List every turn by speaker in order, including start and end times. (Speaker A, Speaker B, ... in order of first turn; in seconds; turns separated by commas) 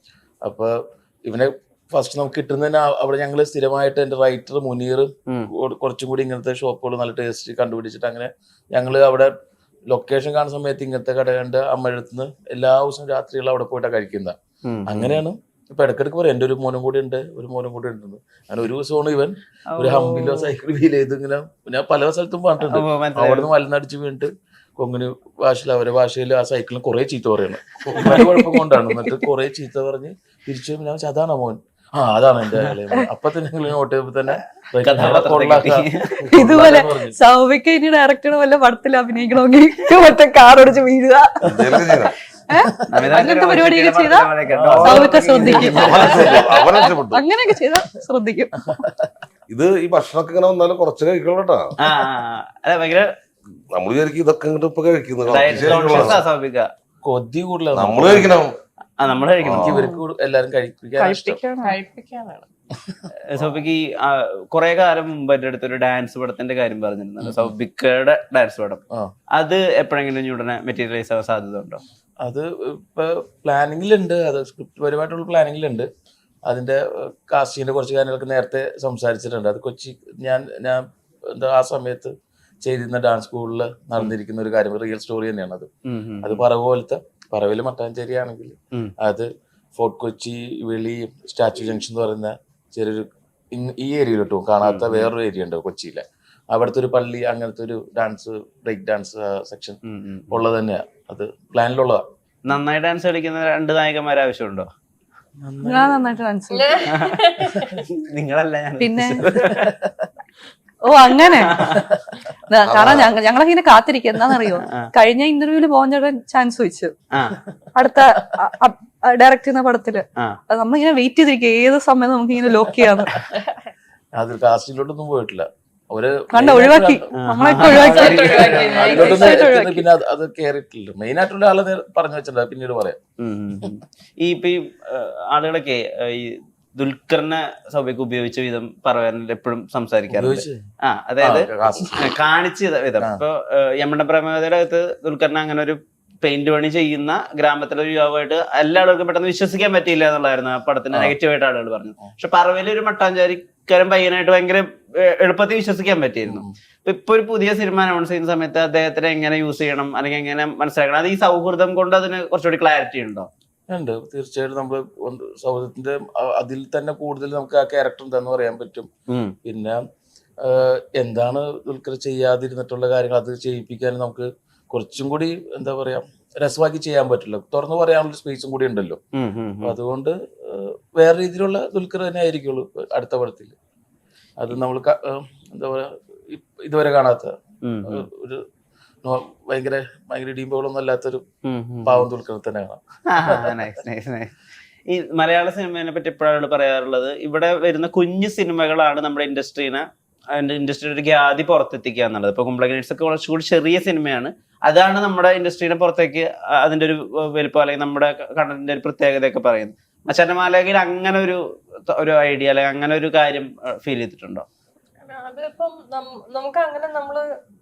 Speaker A: 0.4-9.3, Speaker A: 9.9-37.2, Speaker B: 14.6-15.2, Speaker B: 19.7-20.5, Speaker B: 22.7-23.5, Speaker C: 28.1-29.2, Speaker B: 34.8-36.2, Speaker C: 36.3-48.8, Speaker D: 41.4-42.1, Speaker A: 42.6-43.1, Speaker B: 42.9-46.3, Speaker A: 44.5-45.7, Speaker D: 45.1-47.2, Speaker A: 48.7-48.9, Speaker D: 49.5-51.7, Speaker B: 51.8-53.1, Speaker D: 53.7-56.2, Speaker B: 55.3-56.7, Speaker A: 55.5-56.2, Speaker A: 57.0-58.3, Speaker D: 57.7-58.5, Speaker B: 59.0-59.8, Speaker D: 59.4-59.8, Speaker A: 59.6-61.4, Speaker C: 59.6-60.0, Speaker C: 61.0-61.8, Speaker E: 61.6-62.5, Speaker B: 63.3-68.8, Speaker A: 67.2-67.5, Speaker B: 69.4-71.8, Speaker A: 72.2-75.9, Speaker A: 76.5-85.7, Speaker B: 85.9-86.4, Speaker A: 86.2-99.8, Speaker B: 94.6-95.1, Speaker B: 99.9-100.4, Speaker A: 100.3-102.0, Speaker B: 102.5-104.7, Speaker A: 105.4-106.1, Speaker C: 105.6-107.0, Speaker E: 106.5-107.8, Speaker B: 106.9-109.7, Speaker C: 108.8-109.3, Speaker A: 109.3-110.0, Speaker C: 110.9-111.6, Speaker B: 111.3-111.9, Speaker A: 111.7-112.1, Speaker C: 112.5-117.0, Speaker D: 112.7-113.1, Speaker B: 114.6-114.9, Speaker B: 117.1-117.4, Speaker C: 117.8-123.1, Speaker A: 124.2-127.1, Speaker C: 126.3-129.9, Speaker B: 127.2-129.4, Speaker E: 127.6-129.4, Speaker A: 128.2-133.0, Speaker B: 133.2-163.3, Speaker A: 140.1-140.6, Speaker A: 141.2-142.2, Speaker A: 156.3-156.6, Speaker A: 163.7-168.9, Speaker B: 169.1-169.3, Speaker A: 169.4-169.8, Speaker A: 170.4-179.0, Speaker B: 179.1-179.8, Speaker A: 179.6-183.6, Speaker A: 184.4-187.3, Speaker B: 187.6-188.1, Speaker A: 187.9-188.4, Speaker A: 189.0-191.2, Speaker B: 191.4-192.1, Speaker A: 191.8-193.6, Speaker B: 193.1-194.3, Speaker B: 194.9-214.5, Speaker E: 215.0-217.2